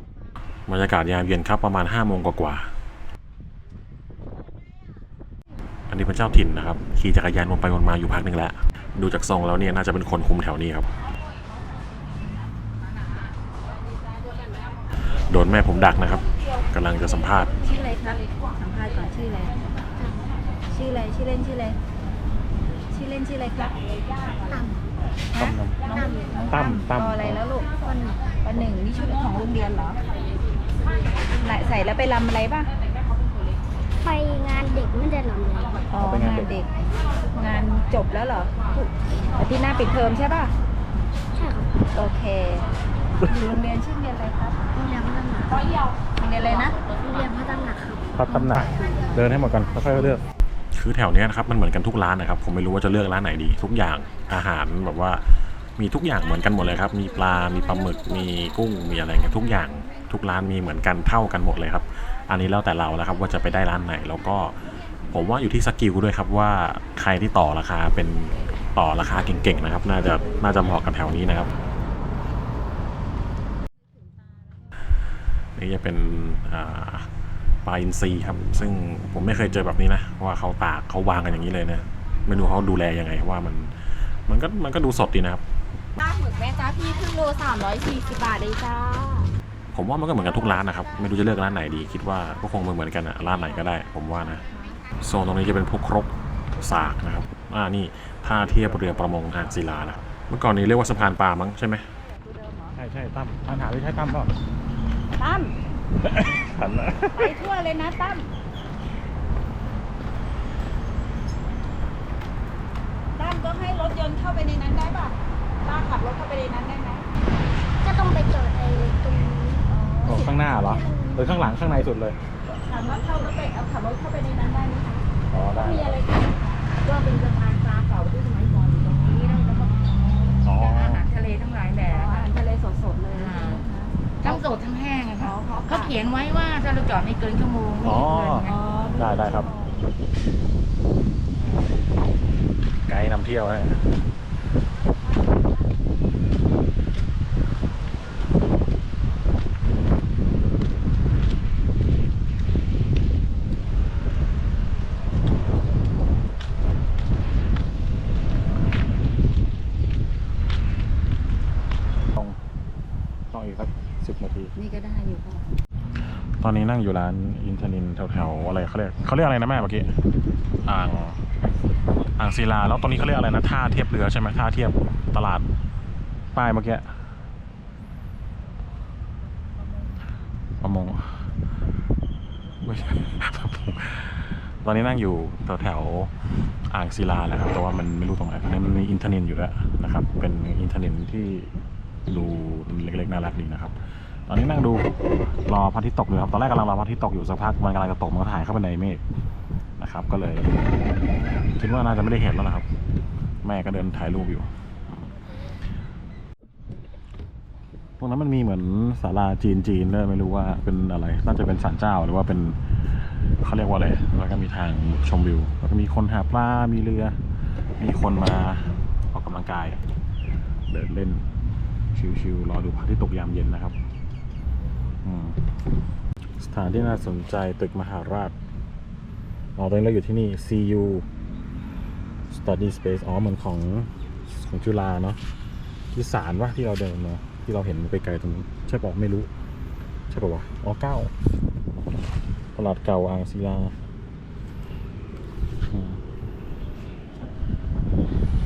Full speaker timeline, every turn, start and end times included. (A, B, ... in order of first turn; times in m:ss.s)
0:00.7-0:02.7 A
0:05.9-0:10.9 A
0:15.1-0:17.6 A
0:17.6-0:19.6 B
0:20.0-0:20.3 C
0:20.7-0:21.8 B
0:22.9-0:23.8 B
0:24.5-0:24.9 C
0:25.3-0:27.8 B
0:25.4-0:25.9 A
0:25.9-0:26.5 C
0:26.5-0:27.4 A
0:27.8-0:28.2 C
0:28.4-0:30.0 B
0:31.4-0:32.7 B
0:34.0-0:35.9 C
0:35.9-0:36.7 B
0:36.0-0:36.6 A
0:37.3-0:40.5 B
0:41.3-0:41.7 C
0:42.0-0:42.6 B
0:43.2-0:44.6 B
0:44.7-0:45.8 C
0:46.2-0:46.8 B
0:47.0-0:49.0 C
0:48.1-1:11.5 A
1:15.6-1:17.1 A
1:17.6-1:25.4 A
1:26.0-1:29.3 B
1:29.7-1:34.5 A
1:35.0-1:41.9 A
1:42.2-1:42.7 B
1:42.7-1:44.4 A
1:45.2-1:45.6 B
1:46.0-1:47.4 A
1:47.1-1:48.3 B
1:53.2-1:57.0 B
1:57.8-2:01.4 C
1:59.7-2:00.4 B
2:00.0-2:02.2 A
2:02.6-2:09.6 B
2:05.3-2:06.0 A
2:09.1-2:12.2 D
2:10.4-2:11.0 A
2:11.9-2:14.6 B
2:13.1-2:13.6 D
2:14.2-2:18.6 D
2:15.2-2:15.9 B
2:17.8-2:19.5 A
2:18.4-2:19.8 B
2:22.8-2:24.0 A
2:43.3-2:44.5 A
2:44.6-2:45.4 B
2:46.4-2:49.9 A
2:50.6-2:51.3 A
2:52.2-2:55.5 A
2:56.3-2:57.0 A
3:00.6-3:01.2 A
3:02.6-3:06.1 A
3:06.7-3:11.5 A
3:12.1-3:14.9 A
3:15.5-3:19.0 A
3:19.8-3:20.6 A
3:21.6-3:22.7 A
3:23.4-3:24.5 A
3:28.0-3:37.2 A
3:37.8-3:39.8 A
3:40.7-3:41.3 A
3:41.9-3:43.8 A
3:45.0-3:45.4 A
3:46.4-3:48.3 A
3:49.6-3:51.0 A
3:52.3-3:55.2 A
3:55.9-3:59.3 A
4:00.1-4:01.1 A
4:02.5-4:03.8 A
4:05.7-4:06.0 A